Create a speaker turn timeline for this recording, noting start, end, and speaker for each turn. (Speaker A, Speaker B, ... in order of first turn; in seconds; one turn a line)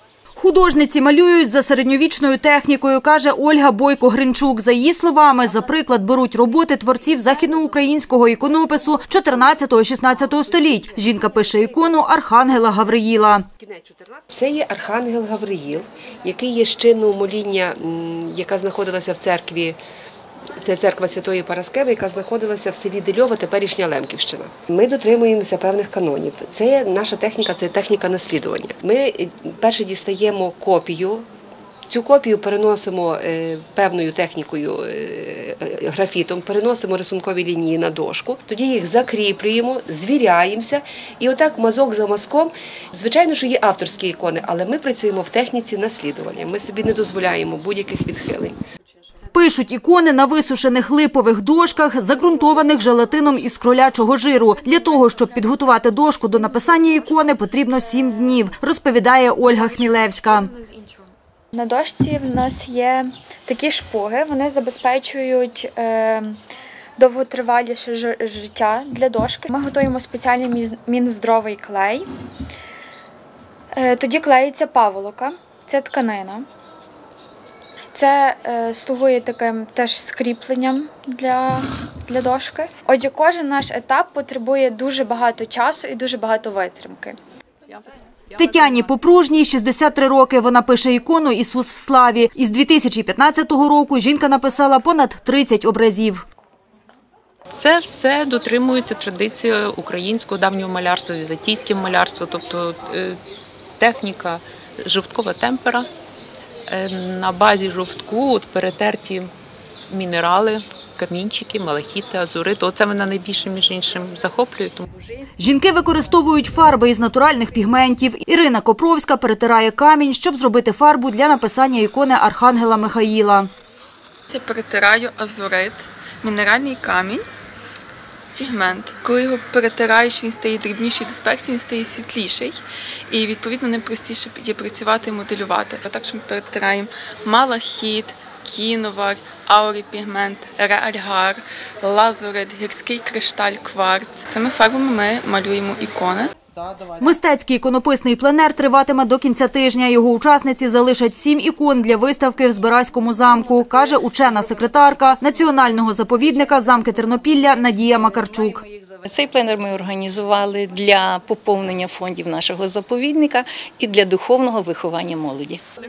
Speaker A: 0.4-13.4
Speaker B: 13.6-19.8
Speaker B: 20.6-31.2
Speaker B: 31.9-48.6
Speaker A: 49.3-60.5
Speaker C: 61.5-66.4
Speaker C: 67.0-72.1
Speaker C: 73.7-76.5
Speaker C: 77.9-87.2
Speaker A: 88.3-96.2
Speaker D: 97.5-103.2
Speaker D: 103.8-105.9
Speaker D: 106.7-109.3
Speaker D: 109.9-114.9
Speaker A: 115.4-123.5
Speaker E: 124.3-127.2
Speaker E: 128.4-132.6
Speaker E: 133.1-146.3
Speaker A: 147.0-158.6
Speaker F: 158.7-165.6